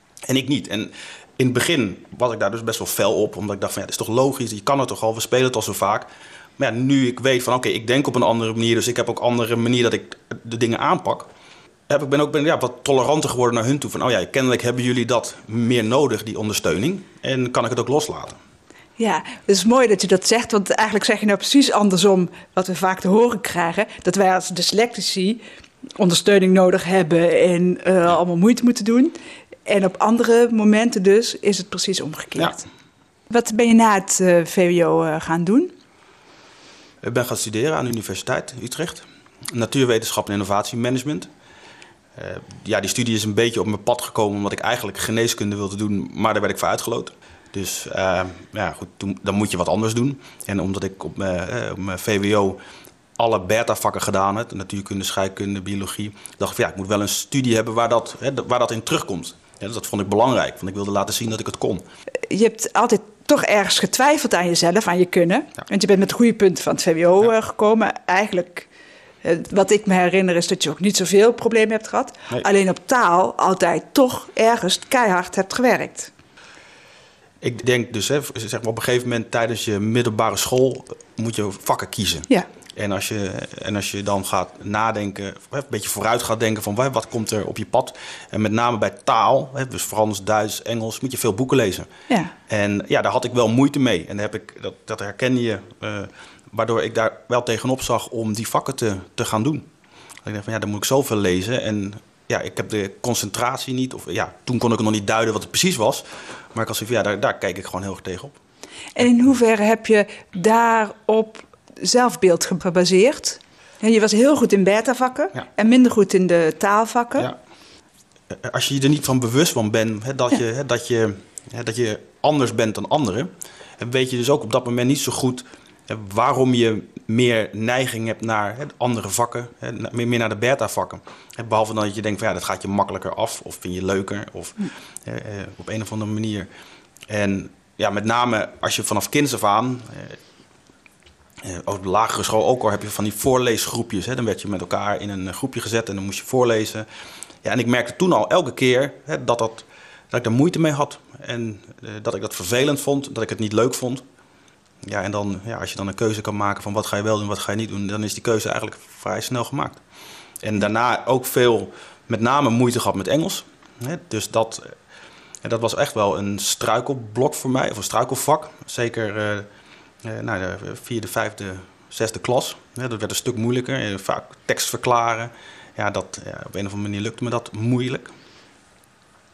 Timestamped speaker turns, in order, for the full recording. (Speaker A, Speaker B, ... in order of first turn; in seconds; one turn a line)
Speaker A: 0.3-11.3
Speaker A: 11.9-18.4
Speaker B: 19.0-25.4
Speaker B: 26.0-32.6
Speaker B: 33.3-35.7
Speaker A: 37.0-41.3
Speaker A: 42.2-52.6
Speaker A: 53.2-61.9
Speaker B: 62.3-68.7
Speaker B: 69.2-76.1
Speaker A: 77.4-91.9
Speaker A: 92.5-99.7
Speaker A: 100.2-108.3
Speaker B: 109.0-117.3
Speaker A: 118.3-136.5
Speaker A: 137.1-140.2
Speaker A: 141.4-146.9
Speaker A: 147.4-154.0
Speaker A: 154.8-159.8
Speaker A: 160.4-164.7
Speaker A: 165.4-169.5
Speaker A: 170.0-178.1